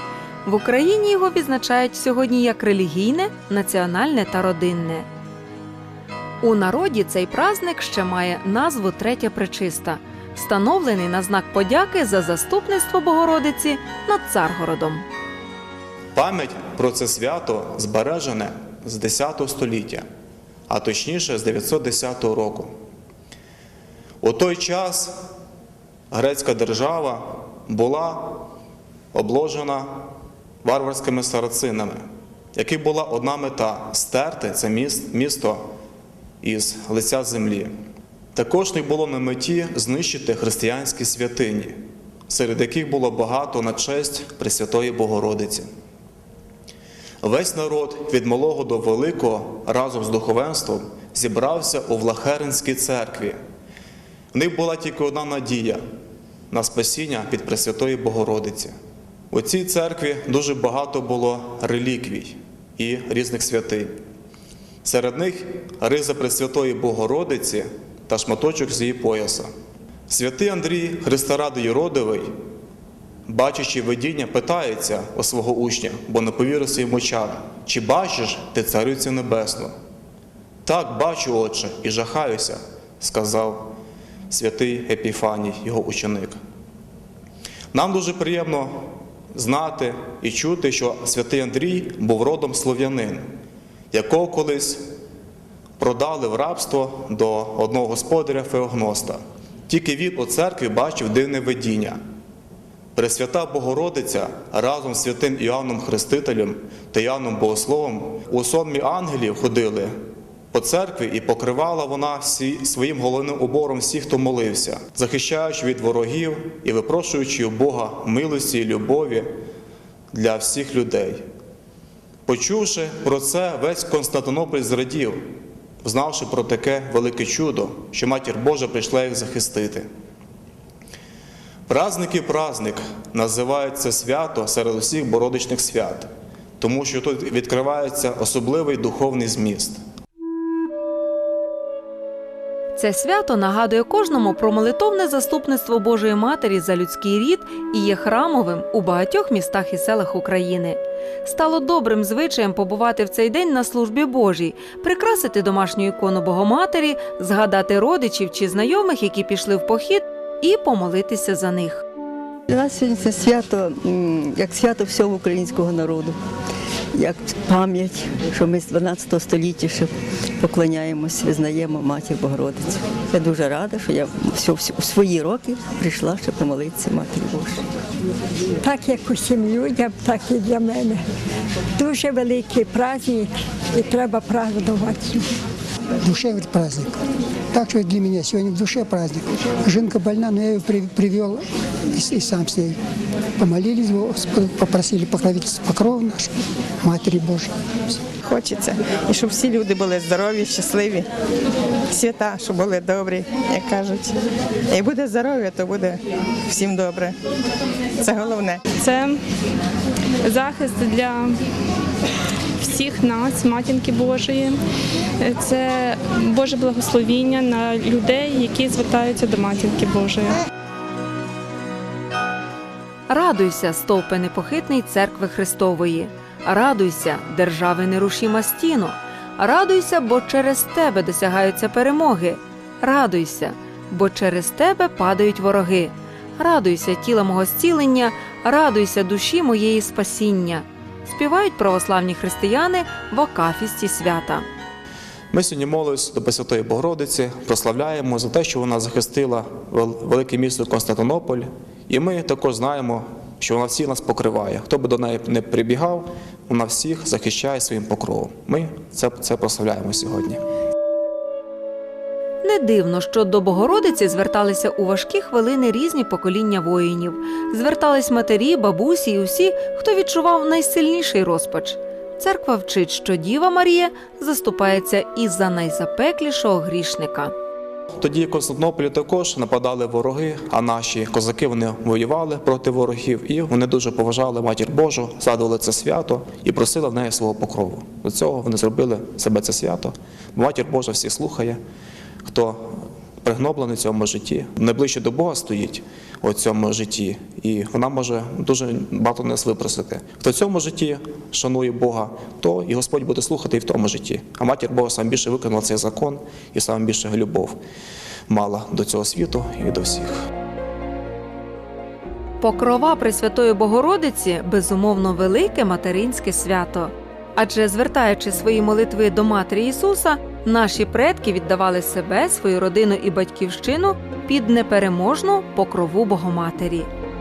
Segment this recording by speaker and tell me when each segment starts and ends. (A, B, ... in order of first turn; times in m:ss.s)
0:00.4-0:05.1 A
0:06.4-0:15.0 A
0:16.2-0:20.0 B
0:20.7-0:22.7 B
0:24.2-0:25.2 B
0:26.1-0:28.4 B
0:29.1-0:30.1 B
0:30.6-0:35.6 B
0:36.4-0:37.7 B
0:38.4-0:45.7 B
0:47.2-0:53.4 B
0:54.3-0:55.8 B
0:56.5-0:58.8 B
0:59.3-1:03.9 B
1:04.8-1:09.5 B
1:10.1-1:12.3 B
1:13.3-1:19.7 B
1:20.6-1:23.7 B
1:24.3-1:26.4 B
1:27.7-1:33.2 B
1:33.9-1:34.8 B
1:35.8-1:42.0 B
1:43.0-1:49.9 B
1:50.5-1:59.3 B
2:00.1-2:01.2 B
2:02.3-2:05.2 B
2:05.8-2:09.9 B
2:11.7-2:16.1 B
2:16.6-2:19.8 B
2:22.8-2:41.8 A
2:42.5-2:46.2 C
2:47.0-2:57.7 C
2:58.6-3:01.0 D
3:01.8-3:05.2 D
3:06.0-3:07.0 E
3:07.5-3:12.8 E
3:13.4-3:16.3 E
3:16.8-3:17.5 E
3:18.2-3:21.1 F
3:21.9-3:24.2 F
3:24.7-3:27.2 F
3:28.0-3:28.6 F
3:28.8-3:29.2 G
3:30.2-3:31.4 G
3:32.6-3:34.6 G
3:35.2-3:40.4 G
3:43.1-4:04.4 A
4:05.3-4:20.4 B
4:22.4-4:37.3 A
4:38.0-4:51.6 B
4:52.2-5:07.6 B
5:08.3-5:10.2 B
5:12.4-5:26.9 A